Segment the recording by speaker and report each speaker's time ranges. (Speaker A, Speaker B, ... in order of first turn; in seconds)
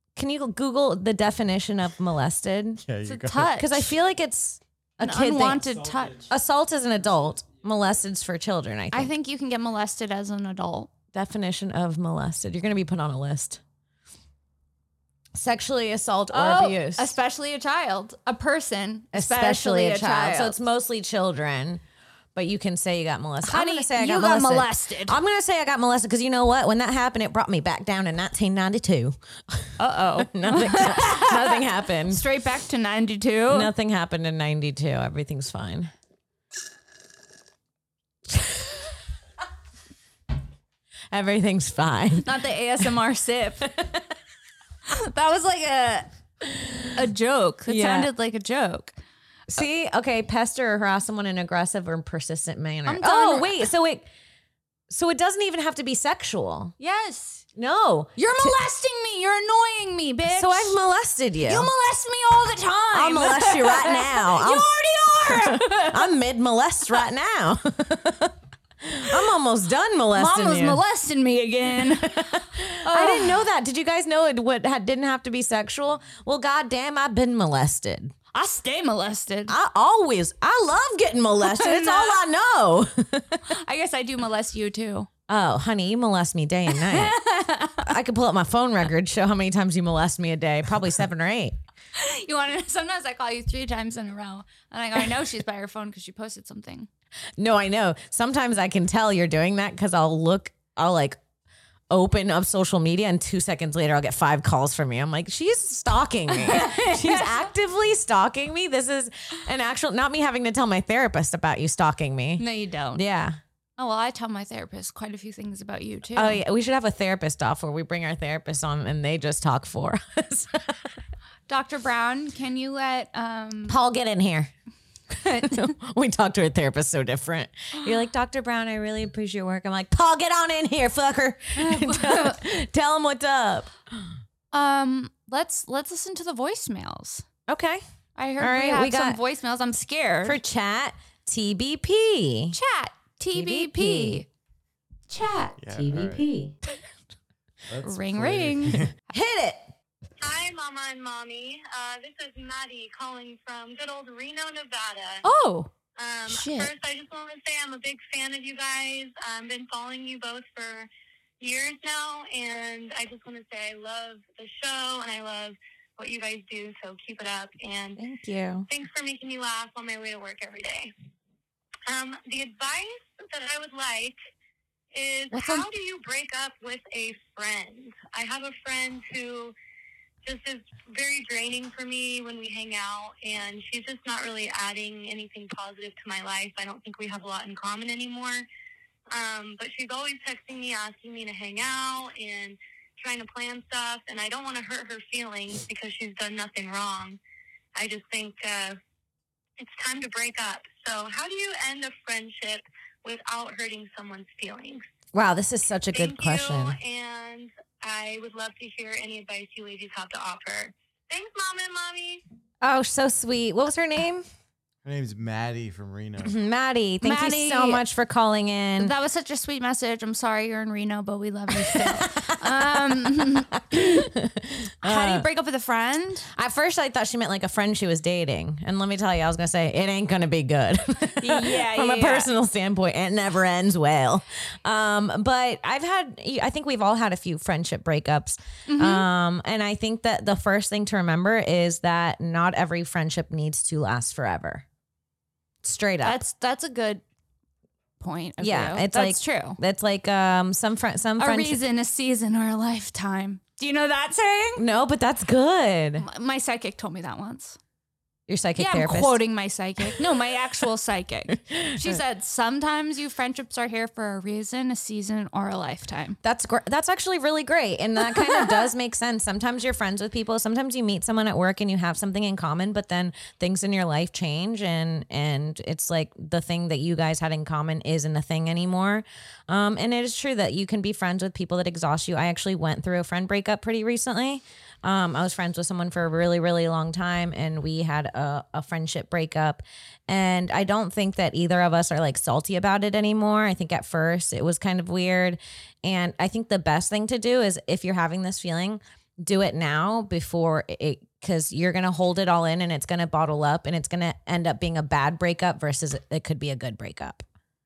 Speaker A: 0.2-2.8, 3.5-9.1, 11.1-13.6, 15.3-17.1, 19.1-21.8, 22.4-32.3, 33.5-35.9, 38.3-38.7, 41.1-42.3, 43.6-44.0, 46.5-46.9, 47.7-48.1, 49.5-54.1, 54.9-56.8, 57.6-58.5, 60.3-61.7, 62.9-70.8, 71.8-78.1, 79.5-83.4, 85.3-87.2, 87.8-91.6, 97.4-101.2, 101.9-113.4, 116.2-120.9, 123.7-124.5, 125.4-134.1, 137.5-137.8, 138.4-139.2, 140.2-142.6, 143.3-144.2, 145.7-146.6, 149.1-149.7, 168.0-168.7, 205.1-206.8, 212.6-214.3, 216.2-218.9, 221.5-225.3, 226.3-244.7, 245.6-246.2, 248.4-251.6, 254.6-256.1, 258.3-259.2, 261.3-262.0, 266.2-307.2
Speaker B: 2.9-3.7, 145.6-146.2, 147.7-148.9, 214.8-216.3
Speaker C: 3.0-3.9, 5.0-6.3, 8.9-10.9, 16.3-20.6, 23.4-25.2, 29.8-33.7, 42.2-43.7, 44.9-46.1, 47.0-49.0, 52.9-53.7, 56.8-57.4, 58.2-60.8, 61.4-66.1, 70.2-72.3, 72.8-73.4, 78.3-79.5, 81.4-82.2, 83.5-85.1, 86.7-87.9, 92.0-96.9, 106.3-107.5, 112.4-113.0, 113.8-116.4, 121.5-123.8, 125.2-125.7, 131.6-132.4, 134.5-137.3, 138.2-140.4, 142.5-144.3, 145.1-145.6, 147.8-148.8, 155.2-155.7, 156.3-156.7, 175.3-175.6, 217.0-217.8, 218.8-223.8, 224.8-226.3, 231.2-232.3, 238.7-239.1, 246.0-247.0, 248.0-249.6, 251.2-254.6, 256.0-257.6, 258.6-266.2
Speaker D: 150.2-155.2, 156.0-160.9, 161.4-168.0, 168.7-170.9, 171.9-174.2, 174.9-179.6, 180.2-188.5, 189.1-197.2, 197.8-198.8, 199.6-204.8, 205.9-212.2